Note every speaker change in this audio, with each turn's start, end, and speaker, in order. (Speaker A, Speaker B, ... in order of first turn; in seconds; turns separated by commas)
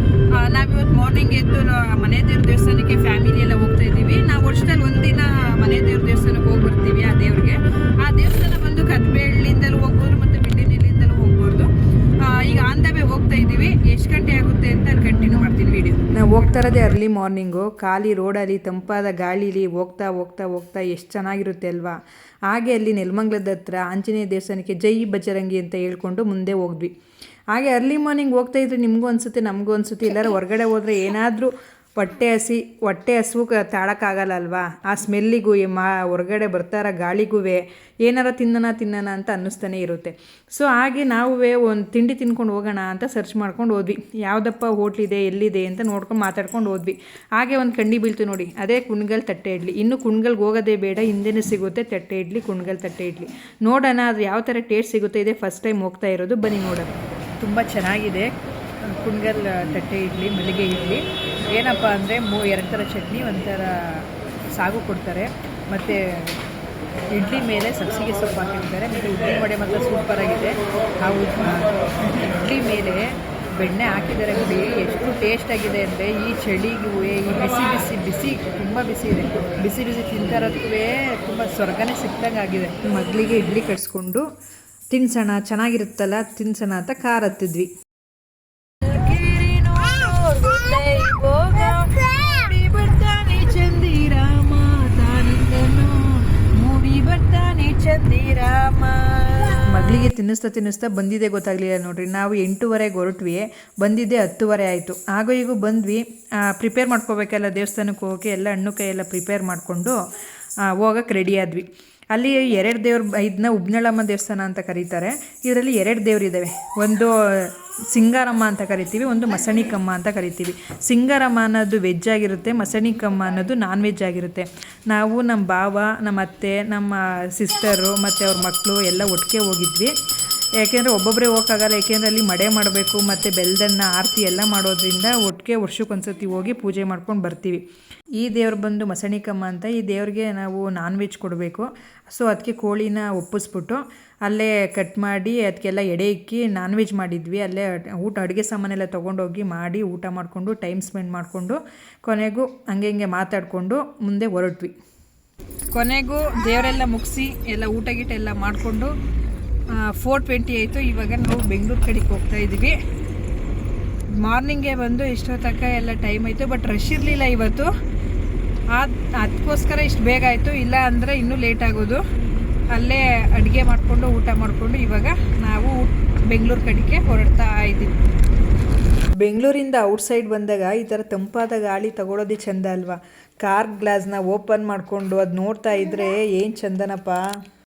Speaker A: 0.3-26.9, Speaker A: 27.5-58.3, Speaker A: 58.9-66.4, Speaker A: 67.1-84.3, Speaker A: 84.9-87.7, Speaker A: 88.9-110.0, Speaker A: 110.7-129.9, Speaker A: 130.6-137.6, Speaker A: 138.2-154.8, Speaker A: 155.7-158.9, Speaker A: 159.7-162.8, Speaker A: 164.2-167.7, Speaker A: 168.7-172.1, Speaker A: 172.7-177.9, Speaker A: 179.2-187.3